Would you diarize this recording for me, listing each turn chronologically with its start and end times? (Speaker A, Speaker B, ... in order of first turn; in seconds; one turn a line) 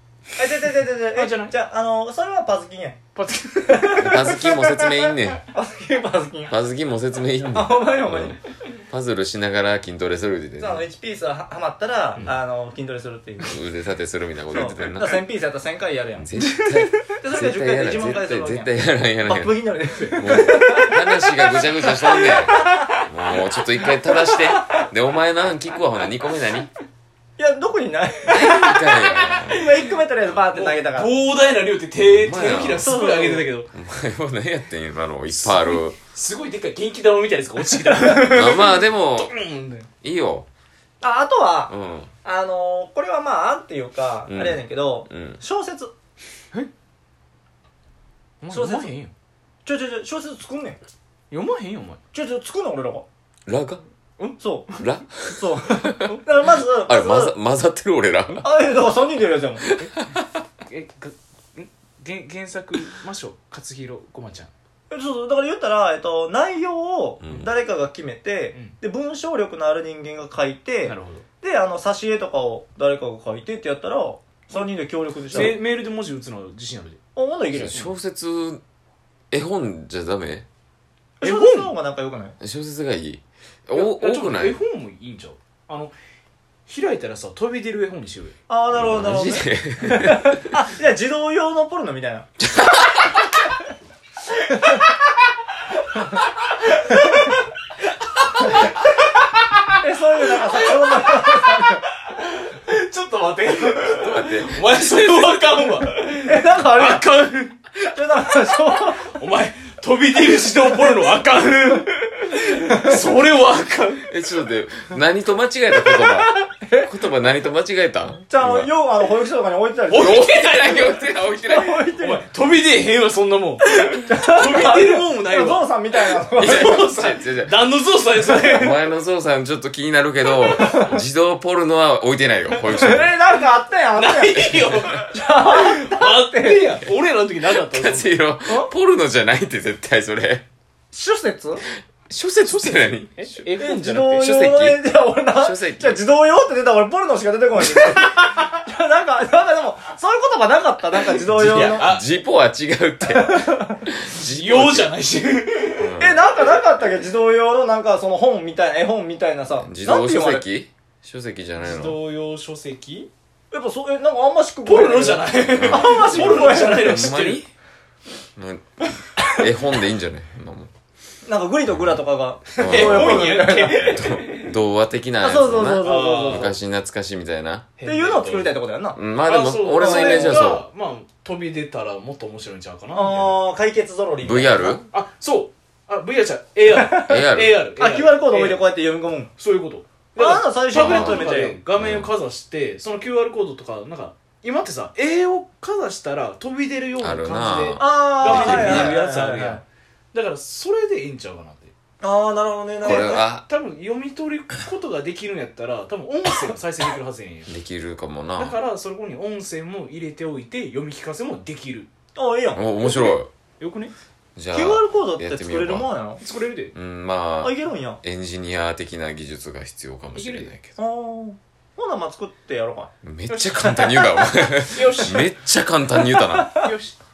Speaker A: 0.4-3.0
Speaker B: 1.1-1.5
Speaker B: 3.1-4.0
Speaker A: 3.6-6.5
Speaker C: 4.0-5.4
Speaker C: 6.5-8.4
Speaker A: 7.5-8.4
Speaker C: 8.9-10.9
Speaker A: 10.6-13.7
Speaker C: 13.4-15.2
Speaker A: 14.5-16.3
Speaker C: 16.2-19.6
Speaker B: 16.4-16.9
Speaker A: 17.0-21.3
Speaker B: 19.9-20.5
Speaker C: 20.1-26.7
Speaker A: 21.9-22.8
Speaker B: 22.0-23.0
Speaker B: 23.8-24.3
Speaker A: 27.4-28.7
Speaker C: 28.3-29.7
Speaker B: 28.3-29.7
Speaker A: 29.4-31.1
Speaker B: 30.5-33.7
Speaker C: 32.0-32.9
Speaker A: 32.8-33.5
Speaker C: 33.7-36.0
Speaker B: 35.3-39.9
Speaker C: 38.1-39.3
Speaker C: 40.0-40.5
Speaker A: 41.0-41.7
Speaker C: 41.7-42.1
Speaker A: 42.2-45.9
Speaker C: 44.3-45.4
Speaker B: 48.4-49.1
Speaker A: 48.5-48.9
Speaker A: 49.6-50.8
Speaker B: 51.3-52.0
Speaker A: 52.1-53.0
Speaker C: 53.5-53.8
Speaker B: 54.2-54.8
Speaker A: 54.4-54.7
Speaker C: 54.8-56.0
Speaker A: 55.2-57.3
Speaker C: 56.8-58.5
Speaker A: 58.4-59.6
Speaker C: 59.6-60.2
Speaker B: 60.6-64.5
Speaker A: 64.9-75.6
Speaker C: 67.2-67.5
Speaker B: 70.8-71.2
Speaker B: 75.3-77.0
Speaker A: 77.2-77.8
Speaker C: 77.5-78.6
Speaker C: 79.3-80.5
Speaker A: 81.2-82.4
Speaker B: 81.2-81.7
Speaker C: 82.4-84.6
Speaker B: 83.7-85.9
Speaker B: 86.7-88.3
Speaker A: 88.5-92.3
Speaker C: 88.8-90.5
Speaker C: 92.4-93.1
Speaker B: 98.4-98.7
Speaker A: 99.8-101.8
Speaker B: 100.6-101.5
Speaker B: 102.1-107.6
Speaker C: 103.9-104.8
Speaker A: 106.2-107.1
Speaker A: 107.8-109.1
Speaker B: 109.0-114.1
Speaker C: 114.1-118.7
Speaker A: 115.8-116.9
Speaker A: 118.3-120.2
Speaker B: 119.9-121.2
Speaker C: 119.9-121.9
Speaker A: 121.4-122.2
Speaker B: 121.9-128.8
Speaker A: 123.7-126.8
Speaker C: 126.4-127.6
Speaker C: 128.3-133.1
Speaker A: 130.5-130.9
Speaker A: 132.7-136.7
Speaker B: 133.9-138.1
Speaker C: 137.4-140.4
Speaker A: 140.9-141.6
Speaker B: 142.1-144.2
Speaker C: 142.5-146.0
Speaker A: 143.6-151.9
Speaker C: 151.3-154.9
Speaker B: 151.3-152.0
Speaker A: 153.1-153.8
Speaker B: 154.0-156.0
Speaker C: 155.8-156.2
Speaker A: 156.0-160.4
Speaker C: 159.5-162.0
Speaker B: 161.6-163.1
Speaker A: 163.5-167.1
Speaker B: 164.7-167.4
Speaker C: 165.5-167.5
Speaker C: 168.3-170.7
Speaker A: 171.2-174.0
Speaker C: 171.7-172.0
Speaker B: 172.6-174.5
Speaker C: 172.6-173.3
Speaker C: 173.9-177.7
Speaker A: 175.2-176.5
Speaker B: 175.8-176.6
Speaker B: 177.8-178.6
Speaker A: 177.8-179.0
Speaker C: 178.9-180.6
Speaker B: 179.2-183.4
Speaker A: 179.8-180.5
Speaker A: 182.9-184.8
Speaker C: 184.2-184.8
Speaker B: 184.9-188.6
Speaker A: 186.7-187.1
Speaker C: 187.0-187.6
Speaker A: 187.8-189.3
Speaker B: 189.4-201.7
Speaker A: 190.2-191.6
Speaker C: 190.7-192.1
Speaker C: 197.0-199.0
Speaker A: 197.8-199.6
Speaker A: 202.0-203.2
Speaker C: 202.8-203.5
Speaker B: 202.8-207.5
Speaker C: 207.5-208.6
Speaker B: 208.4-211.9
Speaker A: 212.1-212.9
Speaker C: 212.5-213.3
Speaker B: 213.6-213.9
Speaker C: 214.3-215.9
Speaker A: 214.5-216.2
Speaker B: 216.2-216.7
Speaker C: 216.7-220.7
Speaker A: 217.4-218.0
Speaker B: 220.1-220.5
Speaker A: 220.8-222.9
Speaker C: 223.0-226.7
Speaker B: 223.3-225.3
Speaker A: 226.4-226.7
Speaker B: 226.5-226.9